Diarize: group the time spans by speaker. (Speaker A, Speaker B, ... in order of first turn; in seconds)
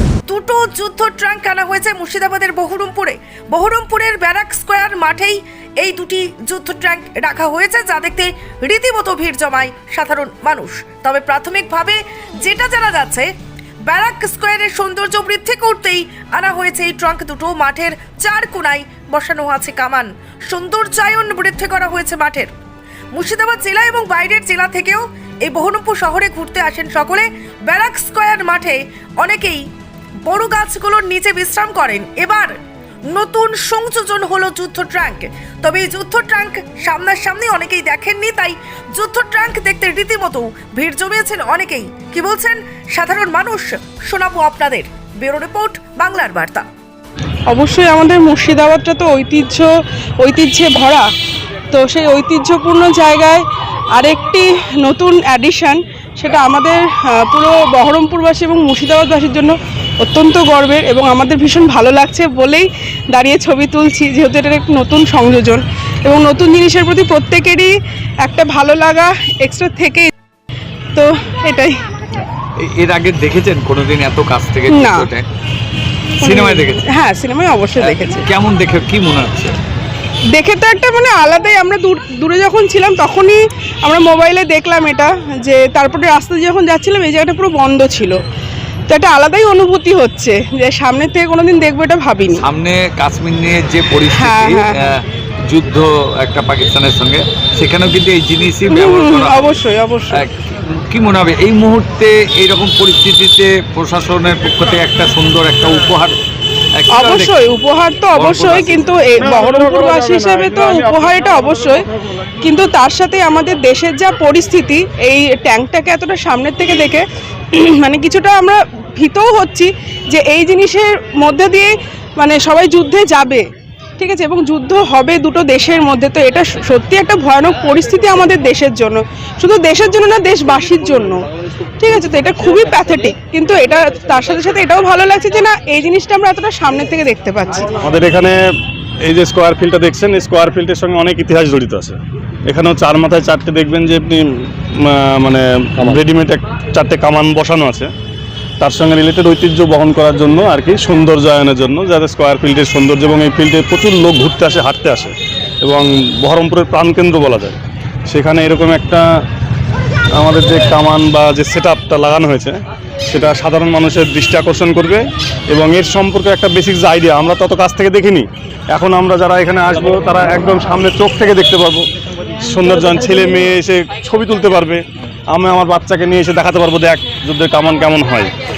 Speaker A: 0.3-13.3, 13.8-22.5, 23.1-29.6, 30.2-32.5, 33.1-46.7
Speaker B: 47.5-51.1, 51.7-70.1, 70.9-71.9, 74.7-75.1, 76.2-78.3, 80.3-88.2, 88.9-92.5, 94.1-94.9, 98.7-100.2, 106.9-123.5, 124.0-131.3, 131.8-137.7
Speaker C: 72.6-75.2, 76.2-76.8, 77.8-79.5, 92.3-99.5, 100.1-106.1, 106.8-107.4, 108.1-108.9
Speaker D: 137.8-138.4, 139.0-147.9, 148.6-159.0, 160.2-171.9, 172.4-178.3